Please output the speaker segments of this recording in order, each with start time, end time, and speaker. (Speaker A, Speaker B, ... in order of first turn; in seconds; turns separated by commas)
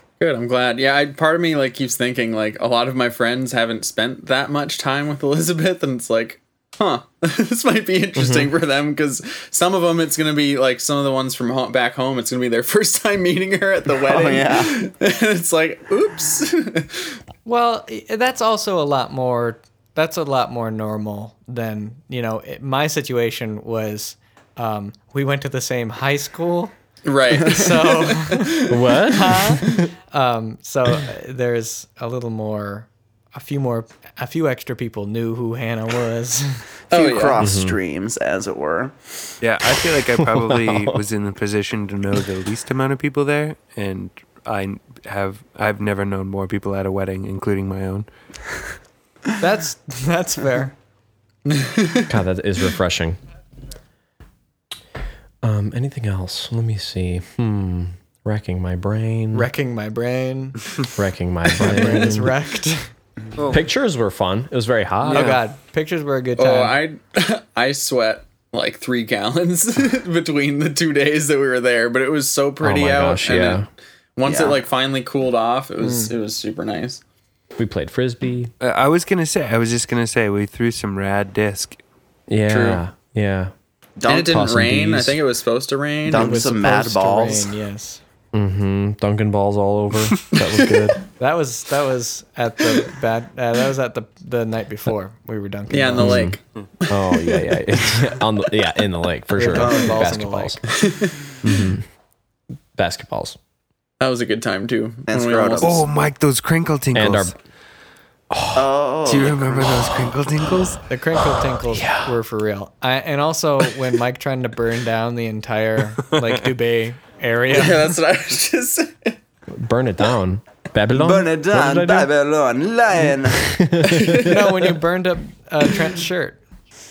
Speaker A: 0.2-17.2, Speaker B: 8.2-8.5, Speaker C: 14.0-14.7, Speaker D: 17.4-26.7, Speaker A: 27.0-28.8, Speaker D: 27.4-36.6, Speaker B: 28.7-29.9, Speaker A: 36.9-37.4, Speaker C: 36.9-39.1, Speaker B: 37.4-37.8, Speaker E: 39.4-48.1, Speaker B: 40.2-41.0, Speaker D: 49.4-50.7, Speaker A: 51.5-52.0, Speaker B: 52.1-53.2, Speaker B: 55.4-59.5, Speaker D: 59.3-60.6, Speaker B: 61.0-62.3, Speaker D: 61.6-62.9, Speaker E: 63.4-63.6, Speaker B: 63.5-65.4, Speaker D: 65.0-66.8, Speaker E: 65.1-65.4, Speaker A: 66.3-73.6, Speaker B: 72.6-73.7, Speaker A: 74.2-77.0, Speaker C: 74.2-74.6, Speaker D: 75.8-76.1, Speaker B: 77.6-78.5, Speaker E: 78.6-81.8, Speaker B: 82.3-83.5, Speaker A: 82.5-82.8, Speaker C: 84.0-84.5, Speaker A: 84.1-86.5, Speaker B: 84.3-85.2, Speaker C: 86.0-87.5, Speaker D: 86.1-88.0, Speaker B: 88.3-91.0, Speaker A: 90.5-90.9, Speaker D: 91.2-96.3, Speaker A: 95.7-98.1, Speaker B: 96.0-100.6, Speaker D: 99.3-100.6, Speaker A: 99.5-99.9, Speaker A: 100.7-101.3, Speaker B: 101.4-101.8, Speaker B: 102.8-103.4, Speaker A: 104.0-105.8, Speaker C: 105.1-105.8, Speaker E: 105.6-107.3, Speaker B: 106.9-107.3, Speaker B: 108.3-108.7, Speaker C: 108.5-110.1, Speaker E: 109.0-110.8, Speaker D: 110.9-117.9, Speaker B: 111.2-112.1, Speaker A: 117.5-119.2, Speaker B: 119.5-122.1, Speaker C: 120.9-123.6, Speaker B: 123.2-124.5, Speaker A: 124.0-124.3, Speaker D: 124.2-126.4